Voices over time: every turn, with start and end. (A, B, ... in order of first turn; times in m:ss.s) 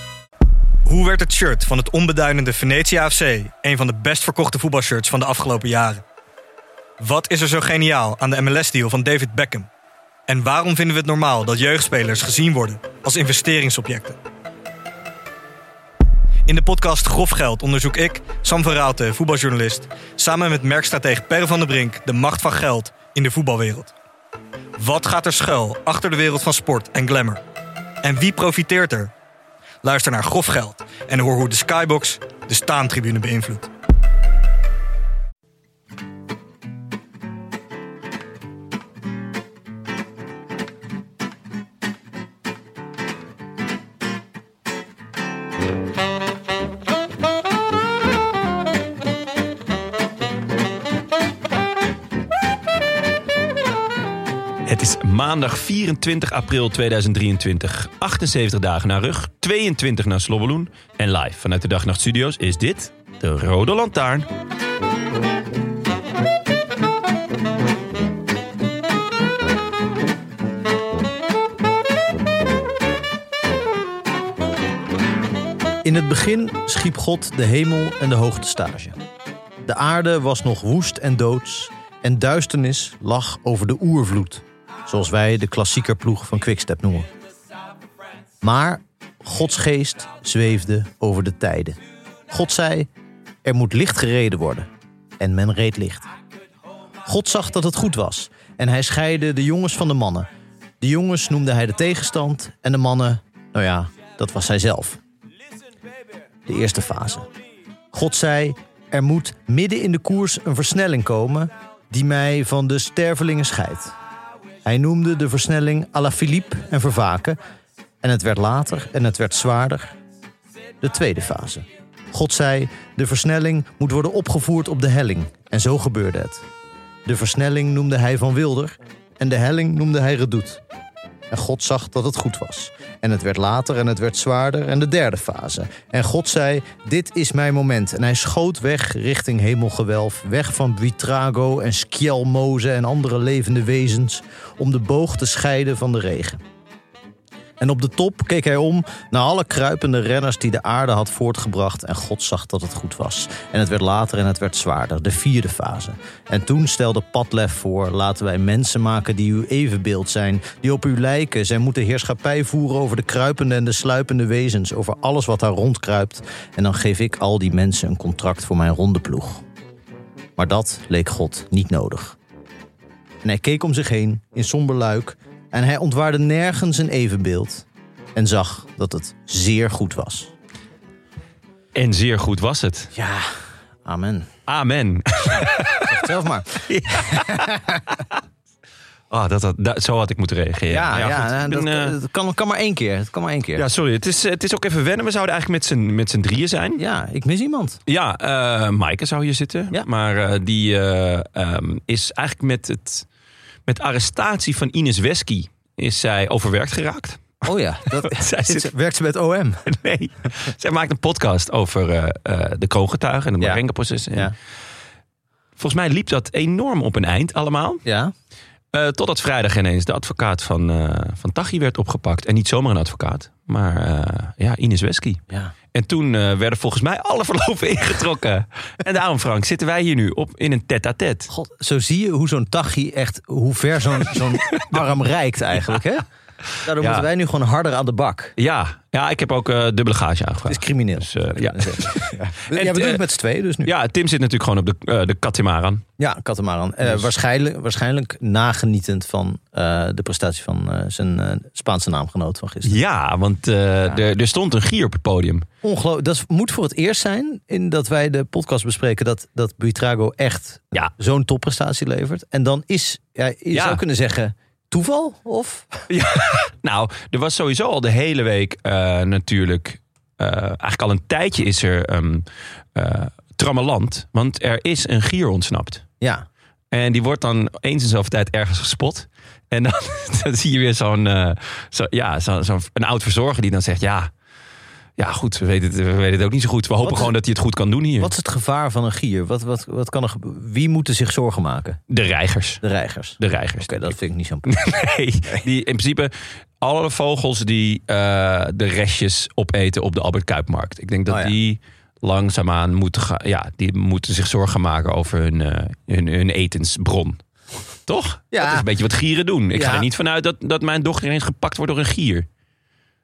0:00.9-0:06.0 A
0:07.0-0:09.7 A
0:10.3-0:14.2 A
0:16.5-0:23.9 A
0:24.8-0:27.4 A
0:28.0-0:29.1 A
0:29.8-0:33.7 A
0:54.6-1:04.3 B
1:15.8-1:19.0 C
1:19.6-1:27.1 C
1:28.4-1:31.8 C
1:32.3-1:32.9 C
1:33.4-1:34.7 C
1:35.2-1:36.1 C
1:37.0-1:40.3 C
1:40.8-1:45.0 C
1:46.5-1:47.3 C
1:47.9-1:53.9 C
1:54.6-1:57.4 C
1:58.0-2:00.0 C
2:00.8-2:06.4 C
2:07.1-2:10.6 C
2:11.3-2:26.4 C
2:27.6-2:49.4 C
2:50.4-2:52.2 C
2:53.2-3:00.3 C
3:01.7-3:02.9 B
3:03.0-3:04.3 C
3:04.5-3:06.0 B
3:05.3-3:07.9 C
3:06.7-3:07.7 B
3:09.1-3:11.9 B
3:10.7-3:13.6 C
3:13.6-3:16.8 B
3:16.8-3:17.8 C
3:17.9-3:23.1 B
3:23.7-3:28.7 B
3:27.4-3:29.7 C
3:29.7-3:34.3 B
3:35.6-3:37.8 B
3:37.8-3:38.1 C
3:38.7-3:45.2 B
3:45.7-3:51.3 B
3:51.3-3:56.0 C
3:54.2-3:54.8 B
3:56.6-3:58.4 C
3:56.8-3:57.1 B
3:58.4-4:03.0 B
4:00.5-4:03.7 C
4:03.6-4:05.8 B
4:06.0-4:12.8 C
4:12.6-4:15.5 B
4:15.6-4:25.8 C
4:23.5-4:23.8 B
4:25.9-4:35.8 B
4:36.0-4:36.3 C
4:36.7-4:44.1 B
4:45.0-4:48.1 B
4:46.8-4:47.1 C
4:48.0-4:51.8 C
4:51.9-4:52.6 B
4:52.6-4:54.6 C
4:53.2-4:54.0 B
4:54.5-5:07.2 B
5:07.9-5:12.3 B
5:08.3-5:08.7 C
5:09.5-5:09.9 C